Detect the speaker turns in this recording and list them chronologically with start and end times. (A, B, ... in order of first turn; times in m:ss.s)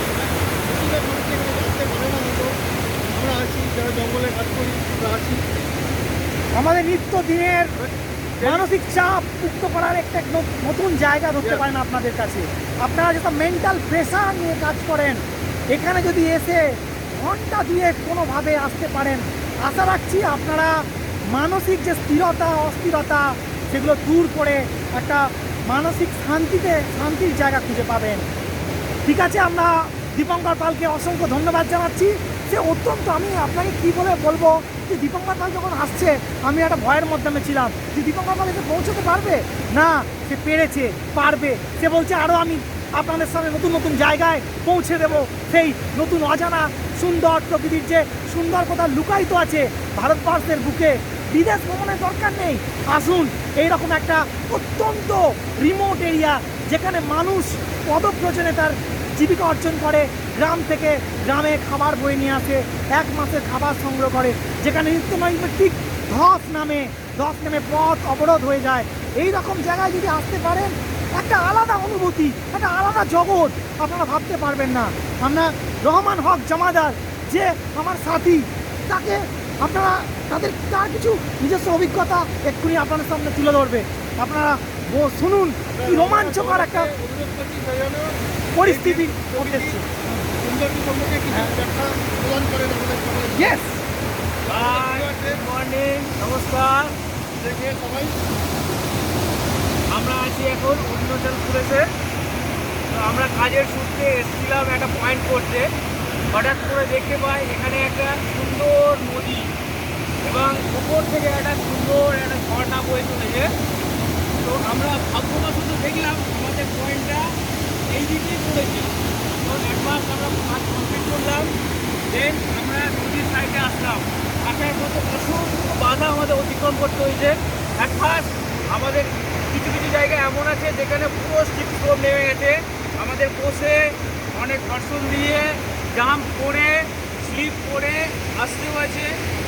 0:00.2-0:02.6 A
0:03.1-0:05.4 A
0:06.5-0:07.8 B
0:07.8-0:08.7 A
0:08.4-0:28.3 B
0:29.0-1:26.9 B
1:25.7-1:29.8 A
1:28.6-1:30.2 B
1:30.4-1:33.5 A
1:33.4-1:33.8 B
1:34.4-1:35.4 A
1:34.5-1:36.9 C
1:37.4-1:38.2 A
1:39.9-1:41.9 C
1:42.9-1:45.7 C
1:46.3-1:49.5 C
1:50.2-1:53.5 C
1:54.4-2:01.5 C
2:02.1-2:19.2 C